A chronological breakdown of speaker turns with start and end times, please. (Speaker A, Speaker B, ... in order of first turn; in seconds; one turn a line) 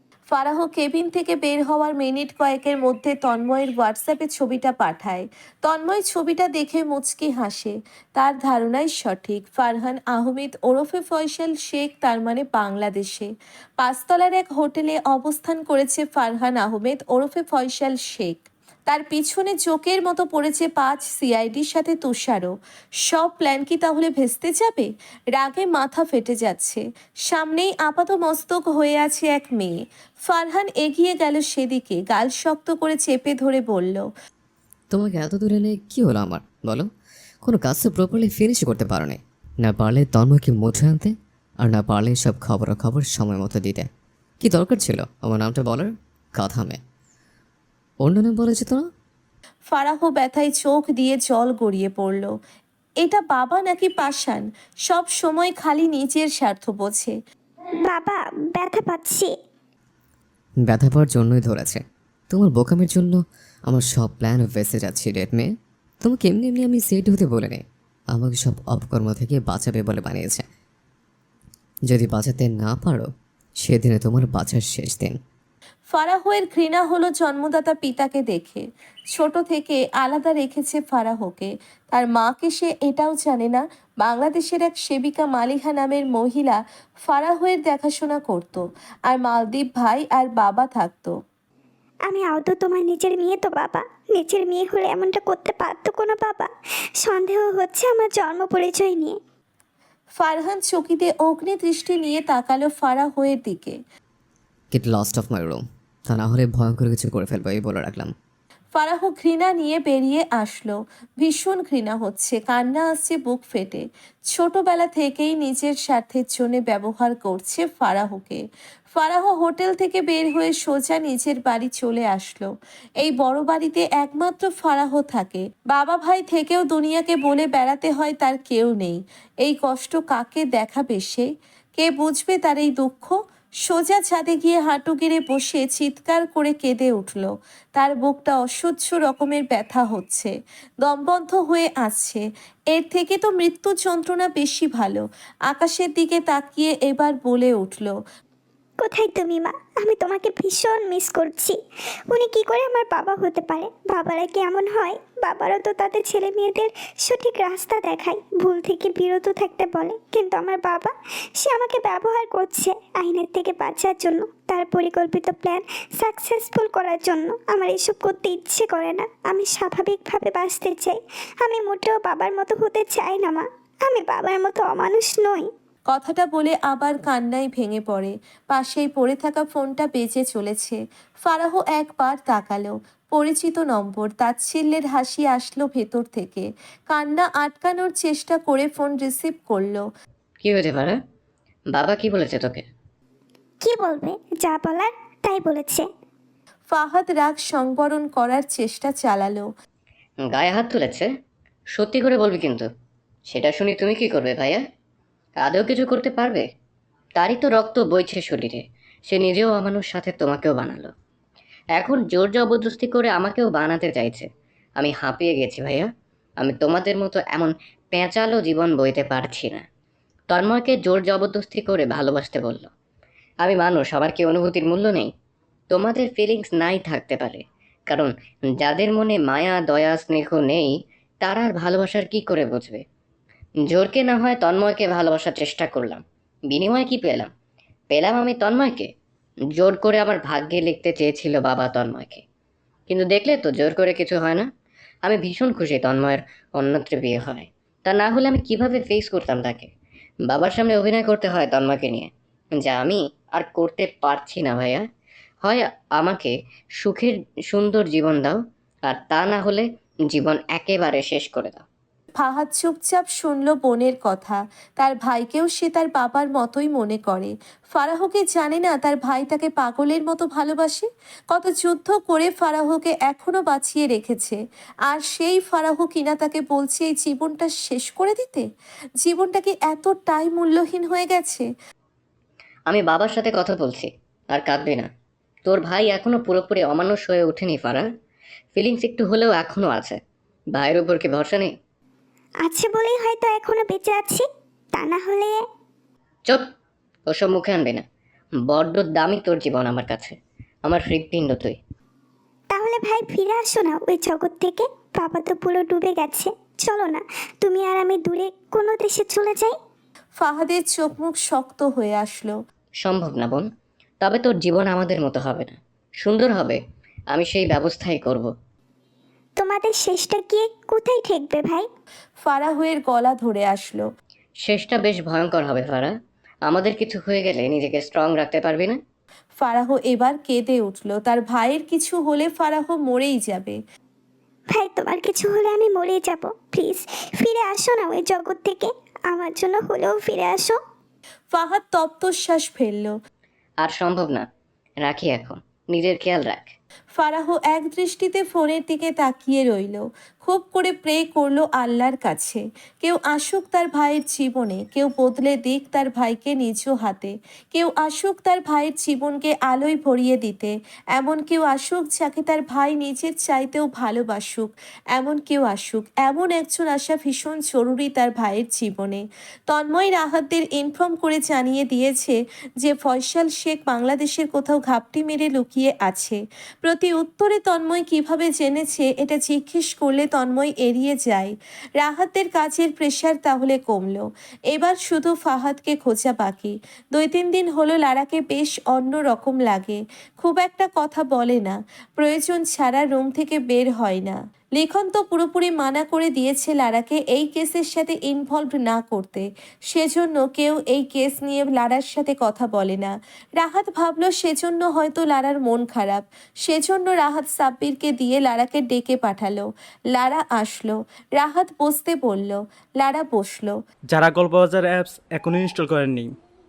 Speaker A: 0.3-22.5
Speaker A: 23.1-29.7
Speaker A: 30.3-34.1
Speaker B: 34.9-36.9
Speaker B: 37.4-43.9
Speaker B: 44.4-46.8
Speaker B: 48.0-48.9
Speaker A: 49.7-52.3
Speaker A: 53.0-57.1
Speaker C: 57.9-59.3
Speaker B: 60.6-70.4
Speaker B: 71.9-73.1
Speaker B: 73.6-75.2
Speaker A: 75.9-91.1
Speaker C: 92.1-96.5
Speaker C: 97.0-99.2
Speaker A: 100.2-103.8
Speaker B: 104.7-108.1
Speaker A: 108.7-118.4
Speaker A: 118.9-140.3
Speaker A: 140.8-147.9
Speaker C: 148.8-151.6
Speaker C: 152.1-175.5
Speaker A: 175.9-189.8
Speaker D: 190.4-190.9
Speaker D: 191.7-192.7
Speaker C: 193.6-195.8
Speaker A: 196.7-199.5
Speaker D: 200.3-201.1
Speaker D: 201.7-202.7
Speaker D: 203.3-204.6
Speaker D: 205.4-206.4
Speaker D: 207.2-210.9
Speaker D: 211.8-214.2
Speaker D: 214.8-215.9
Speaker D: 216.4-219.6
Speaker D: 220.3-222.7
Speaker D: 223.4-225.1
Speaker D: 225.7-230.7
Speaker D: 231.2-232.8
Speaker D: 233.7-237.3
Speaker D: 237.9-238.9
Speaker D: 239.6-242.2
Speaker D: 242.9-244.5
Speaker D: 245.1-249.7
Speaker D: 250.3-254.8
Speaker D: 255.4-261.6
Speaker A: 262.2-278.4
Speaker A: 279.0-281.5
Speaker D: 282.7-284.9
Speaker D: 285.4-287.9
Speaker D: 288.6-290.0
Speaker D: 290.5-291.5
Speaker C: 292.4-295.4
Speaker D: 297.1-297.8
Speaker D: 298.5-301.6
Speaker C: 302.5-309.5
Speaker A: 310.2-312.3
Speaker D: 312.8-313.4
Speaker D: 314.0-316.6
Speaker D: 317.1-318.3
Speaker C: 319.4-321.7
Speaker A: 322.2-323.8
Speaker D: 324.4-325.9
Speaker D: 326.5-328.8
Speaker A: 329.4-333.6
Speaker C: 334.5-340.6
Speaker A: 341.3-342.9
Speaker D: 343.6-344.2
Speaker D: 344.8-346.5
Speaker A: 346.9-413.6
Speaker E: 413.9-416.1